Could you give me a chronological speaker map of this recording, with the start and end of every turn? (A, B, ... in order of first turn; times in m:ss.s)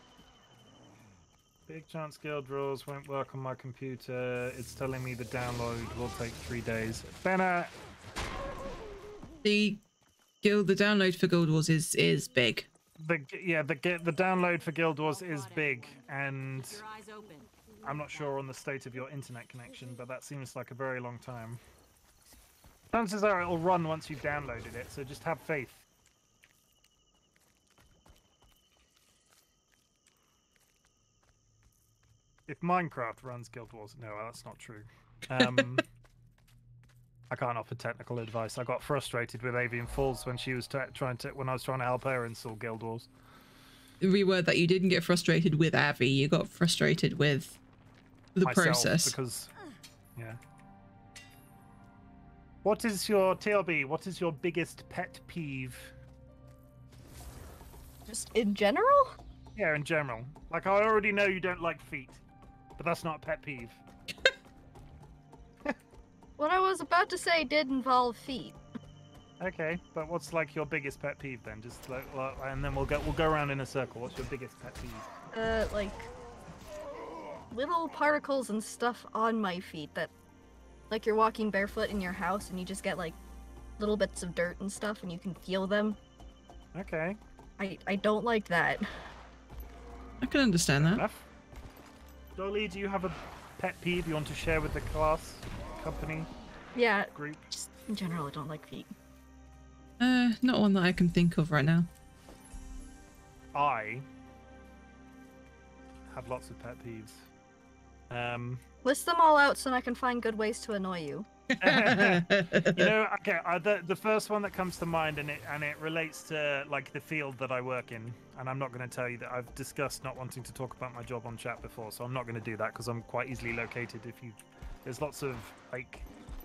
0:01.7-0:07.7 A
0:09.4-0:09.8 B
0:10.4-0:12.7 B
0:13.0-0:16.8 A
0:15.1-0:17.5 C
0:17.8-0:21.6 A
0:22.9-0:25.8 A
0:32.5-0:35.8 A
0:35.4-0:35.8 B
0:37.3-0:43.1 A
0:44.0-0:47.6 B
0:48.3-0:49.2 B
0:48.4-0:49.5 A
0:52.6-0:55.9 A
0:58.1-0:59.1 D
0:59.6-1:02.2 A
1:02.8-1:03.8 A
1:06.4-1:08.6 D
1:09.4-1:15.1 A
1:15.3-1:16.1 D
1:17.5-1:20.1 D
1:20.9-1:23.2 D
1:23.8-1:26.0 D
1:26.7-1:27.2 A
1:27.6-1:28.8 D
1:30.2-1:31.0 B
1:30.8-1:31.2 A
1:32.4-1:36.3 A
1:36.7-1:37.1 D
1:37.1-1:37.6 A
1:37.9-1:38.9 D
1:40.0-1:41.9 B
1:43.5-1:44.0 A
1:46.1-1:47.3 A
1:48.1-1:48.6 A
1:48.8-1:51.3 D
1:51.5-1:52.9 B
1:51.6-2:06.1 A